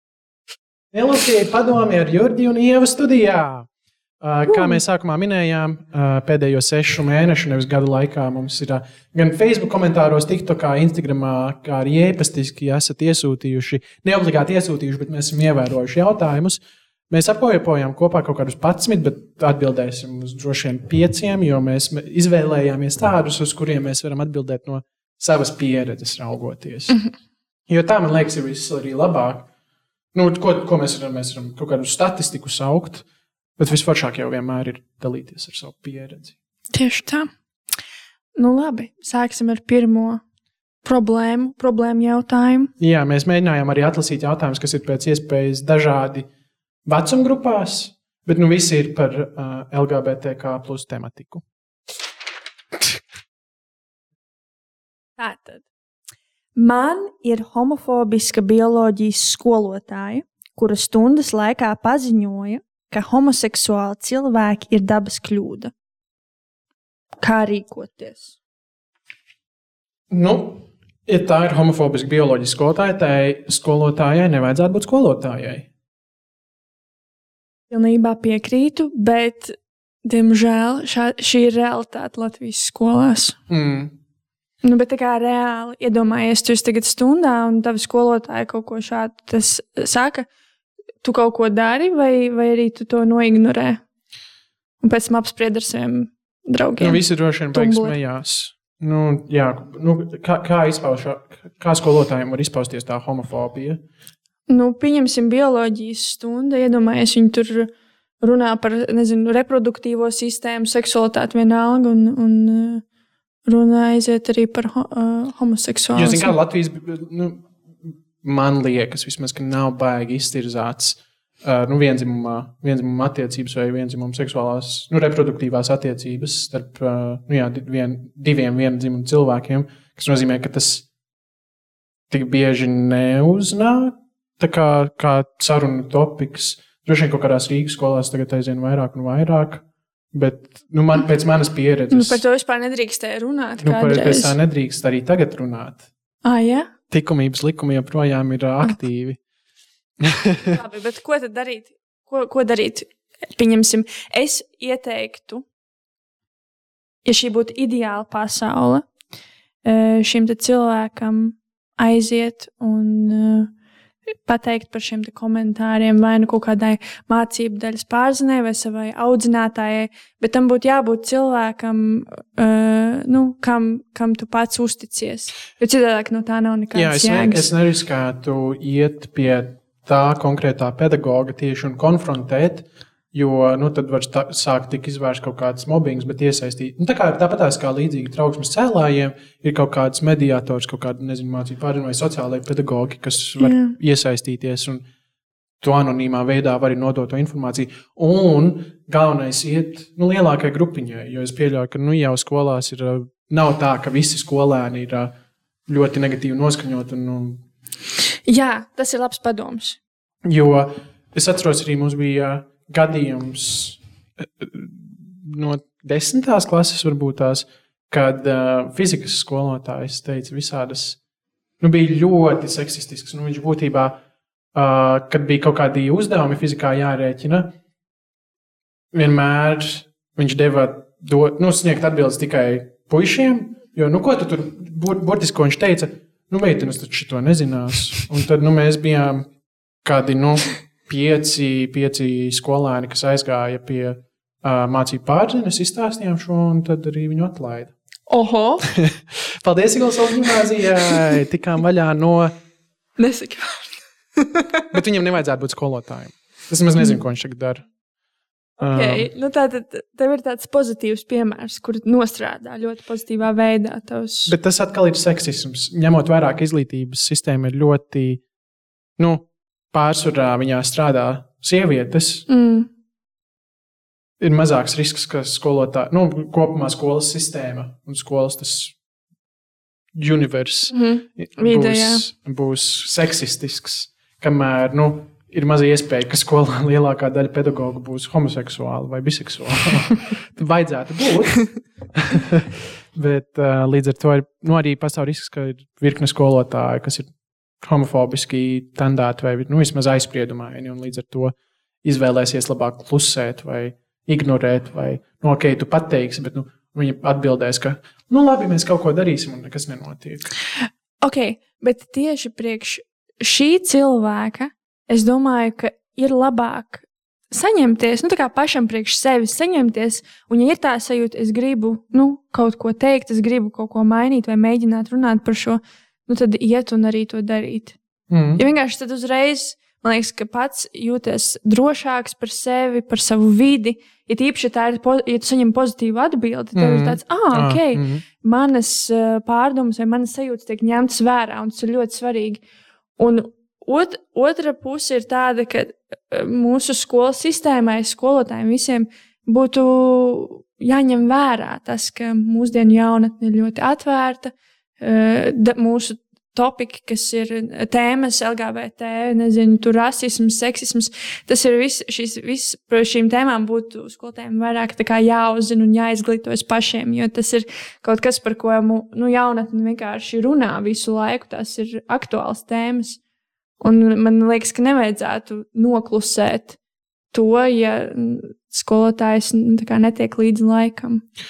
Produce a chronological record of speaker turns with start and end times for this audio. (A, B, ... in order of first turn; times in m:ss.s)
0:00.9-0:03.7 A
0:04.2-0:16.6 A
0:04.5-0:04.8 B
0:17.1-0:27.0 A
0:27.7-0:29.5 A
0:30.1-0:33.0 A
0:33.6-0:36.3 A
0:36.7-0:37.3 B
0:38.4-0:40.2 B
0:40.8-0:42.7 B
0:42.8-0:46.3 A
0:46.8-0:51.4 A
0:55.2-0:55.6 B
0:56.6-1:05.7 B
1:07.2-1:08.3 B
1:10.1-1:15.7 A
1:17.7-1:23.4 B
1:23.5-1:23.9 A
1:24.6-1:30.3 B
1:31.0-1:33.8 B
1:34.8-1:38.0 B
1:36.8-1:43.8 A
1:44.5-1:52.8 B
1:53.4-1:56.4 B
1:55.9-2:10.8 A
2:12.1-2:22.2 A
2:21.9-2:24.3 B
2:23.6-2:25.8 A
2:26.2-2:26.7 B
2:26.9-2:29.2 A
2:30.0-2:30.5 A
2:30.5-2:35.4 B
2:37.0-2:38.9 B
2:39.6-2:43.5 B
2:44.2-2:57.5 B
2:56.7-3:14.8 A
3:13.4-3:13.7 B
3:15.6-3:25.1 A
3:25.7-3:27.4 A
3:28.3-3:29.8 B
3:30.2-3:41.0 A
3:41.6-3:44.0 A
3:44.5-3:47.5 A
3:48.9-3:59.3 A
3:59.8-4:07.7 A
4:08.1-4:08.7 B
4:08.7-4:12.3 A
4:13.0-4:14.7 B
4:14.7-4:17.6 A
4:18.6-4:19.1 A
4:18.6-4:24.3 B
4:24.3-4:28.2 A
4:29.0-4:32.2 A
4:32.3-4:32.7 B
4:34.2-4:38.8 A
4:39.9-5:10.3 A
4:40.7-4:42.0 B
5:11.0-5:27.8 B
5:28.1-5:28.4 A
5:28.4-5:42.4 B
5:36.5-5:38.0 A
5:43.0-6:13.0 B
6:13.6-6:16.6 B
6:17.1-6:21.0 B